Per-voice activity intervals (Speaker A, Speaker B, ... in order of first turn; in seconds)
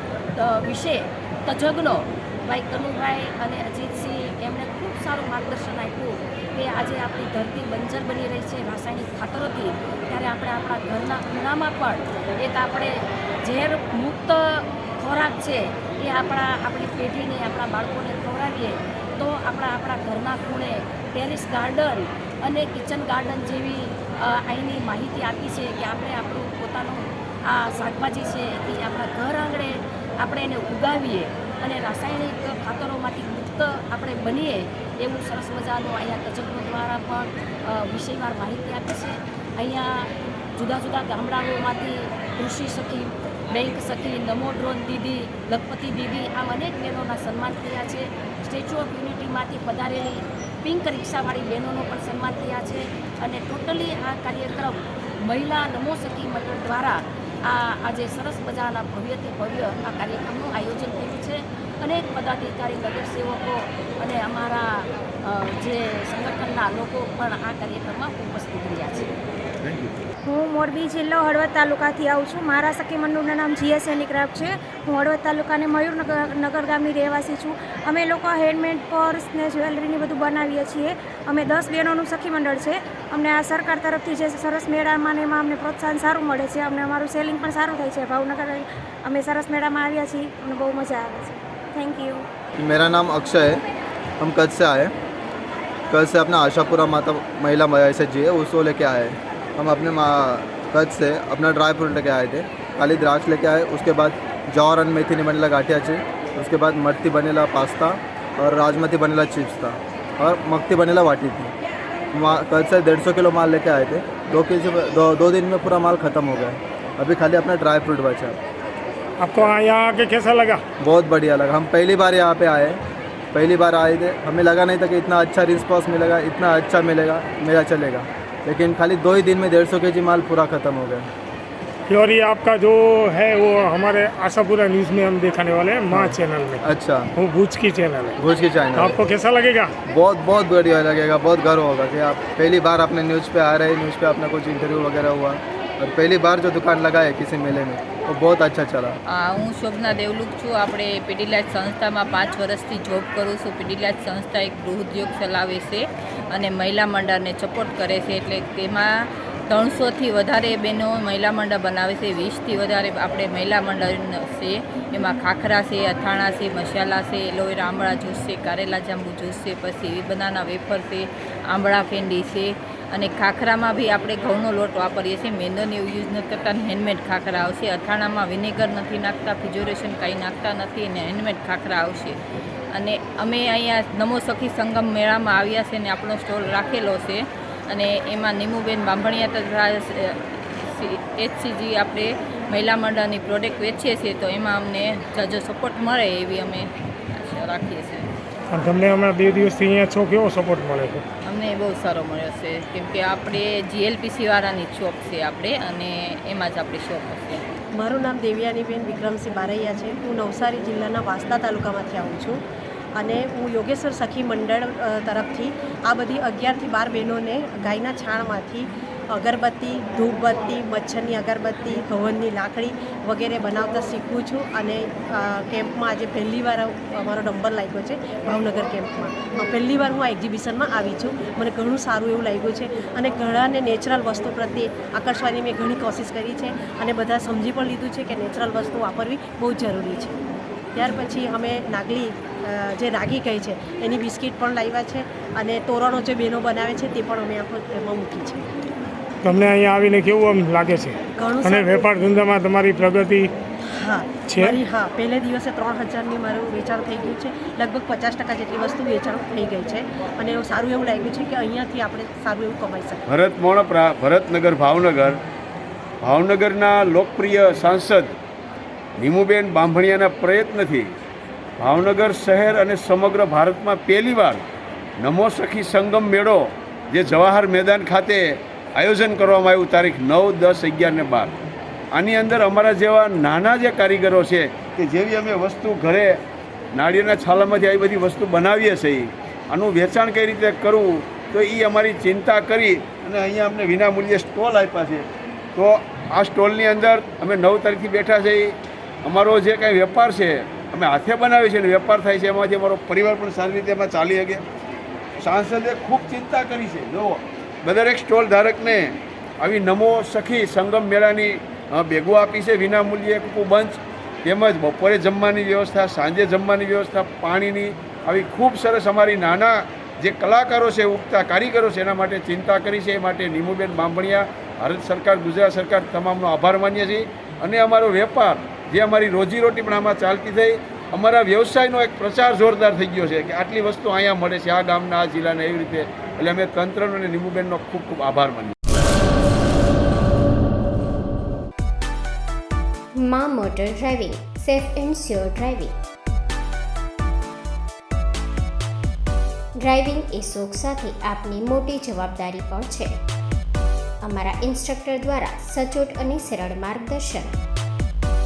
Speaker A: 0.4-69.1
Speaker B: 70.2-92.3
Speaker C: 92.6-93.6, 94.2-94.9, 95.9-111.5, 112.1-118.4, 120.8-122.8, 123.3-131.1, 135.9-137.1, 138.2-139.0, 139.9-149.0
Speaker D: 119.2-120.6, 131.9-136.6, 137.2-138.1, 138.8-139.7, 198.5-201.0, 249.2-253.3, 254.3-254.6
Speaker E: 149.1-158.9, 159.5-182.2, 182.7-198.1, 201.2-207.4
Speaker F: 207.7-212.4, 213.0-240.2, 240.7-248.4, 251.2-251.9, 253.7-263.0
Speaker G: 263.1-265.2, 266.0-268.1, 269.0-270.9, 271.6-274.4, 275.0-281.3, 281.9-286.2, 286.7-304.4, 305.2-338.5
Speaker H: 342.9-345.7, 349.6-352.9, 354.0-357.3